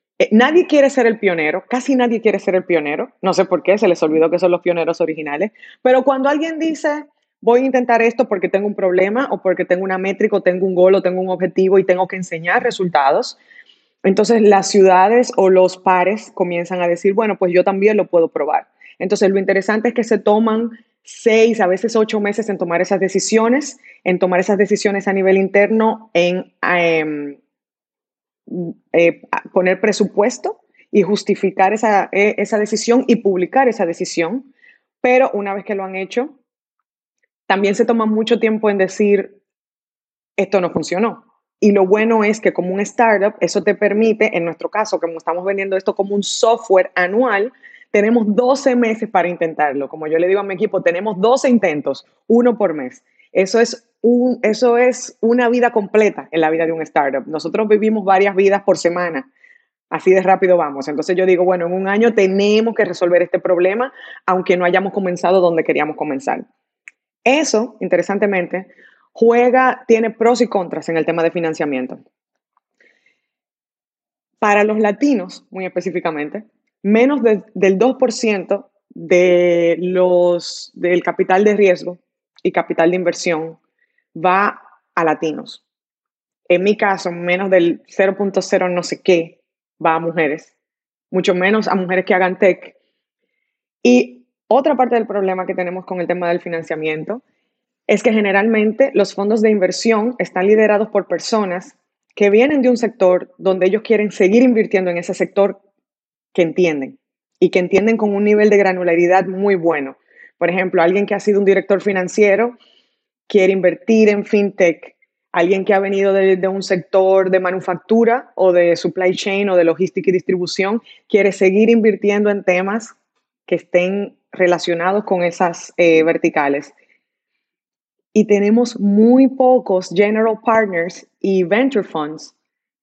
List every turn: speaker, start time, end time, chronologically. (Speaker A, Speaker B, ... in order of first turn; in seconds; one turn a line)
Speaker A: 0.2-13.4
Speaker A: 14.0-27.4
Speaker A: 28.5-34.5
Speaker A: 35.0-36.4
Speaker A: 37.5-39.4
Speaker A: 40.4-59.3
Speaker A: 59.9-66.5
Speaker A: 67.2-72.0
Speaker A: 74.4-83.6
Speaker A: 84.1-85.6
Speaker A: 86.5-90.5
Speaker A: 91.1-92.8
Speaker A: 93.8-97.2
Speaker A: 97.9-105.6
Speaker A: 106.3-112.5
Speaker A: 113.3-122.9
Speaker A: 123.5-126.7
Speaker A: 128.1-132.3